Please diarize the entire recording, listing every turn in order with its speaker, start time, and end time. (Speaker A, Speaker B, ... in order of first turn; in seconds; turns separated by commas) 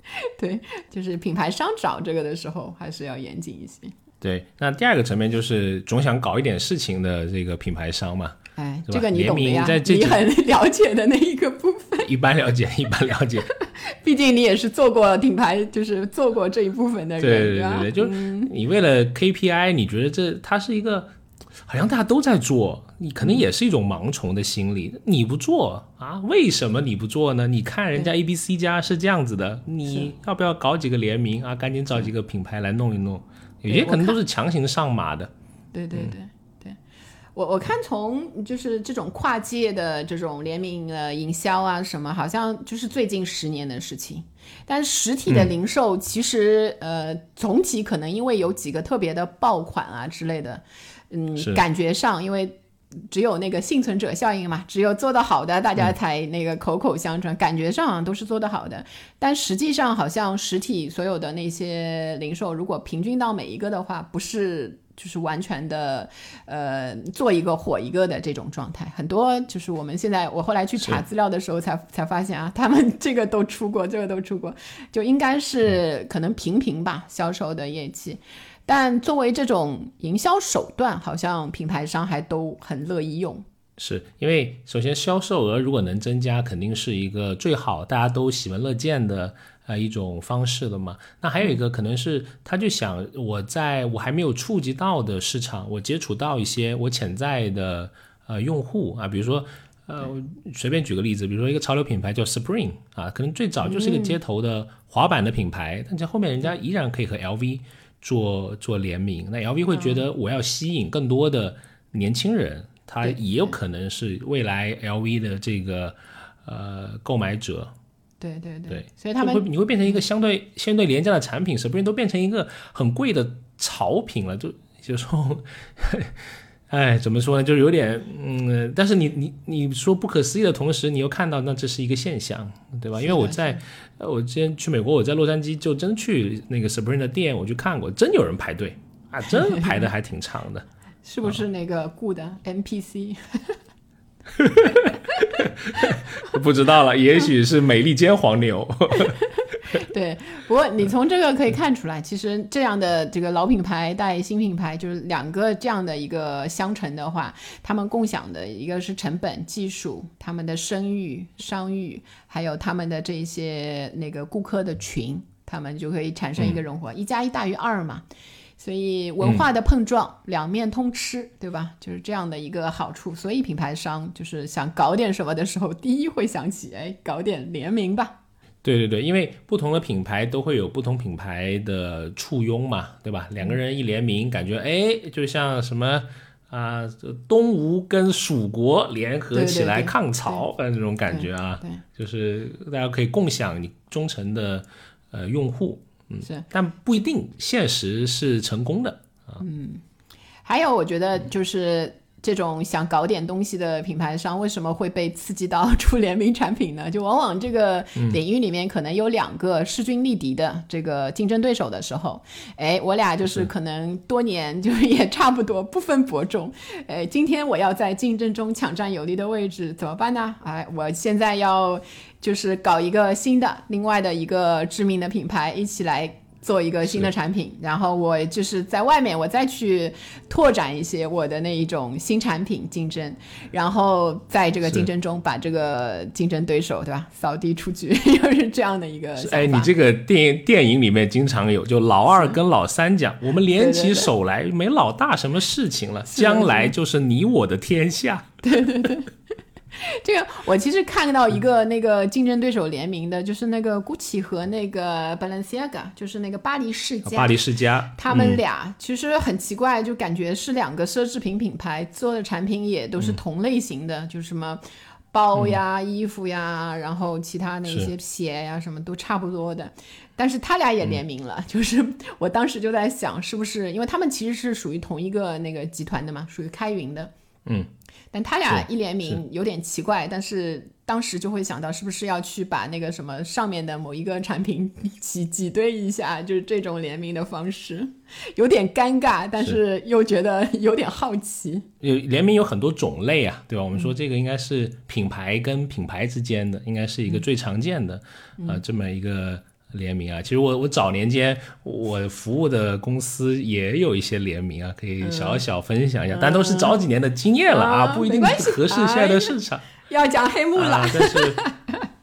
Speaker A: 0.2-4.0, Speaker B: 4.2-10.2, Speaker A: 8.6-12.1, Speaker B: 12.0-13.5, Speaker A: 13.5-18.5, Speaker B: 17.2-21.1, Speaker B: 21.7-35.3, Speaker A: 33.7-34.2, Speaker A: 35.7-36.8, Speaker A: 37.4-83.5, Speaker B: 83.8-117.7, Speaker A: 103.6-104.2, Speaker A: 109.7-110.1, Speaker A: 113.0-113.5, Speaker A: 118.2-120.0, Speaker B: 118.7-140.7, Speaker A: 133.0-133.6, Speaker A: 141.1-143.6, Speaker B: 144.4-149.2, Speaker A: 149.7-168.1, Speaker A: 168.6-178.2, Speaker B: 178.6-199.4, Speaker A: 189.3-190.4, Speaker A: 191.1-191.8, Speaker A: 199.4-199.8, Speaker A: 200.4-239.7, Speaker B: 239.2-248.3, Speaker A: 242.1-242.4, Speaker A: 243.6-244.1, Speaker A: 246.1-246.7, Speaker A: 248.4-249.1, Speaker A: 249.7-257.4, Speaker B: 257.1-258.4, Speaker A: 257.9-264.6, Speaker A: 265.1-277.1, Speaker A: 278.1-291.7, Speaker B: 291.8-309.7, Speaker A: 305.0-305.4, Speaker A: 306.1-306.8, Speaker A: 307.5-311.9, Speaker B: 310.6-311.4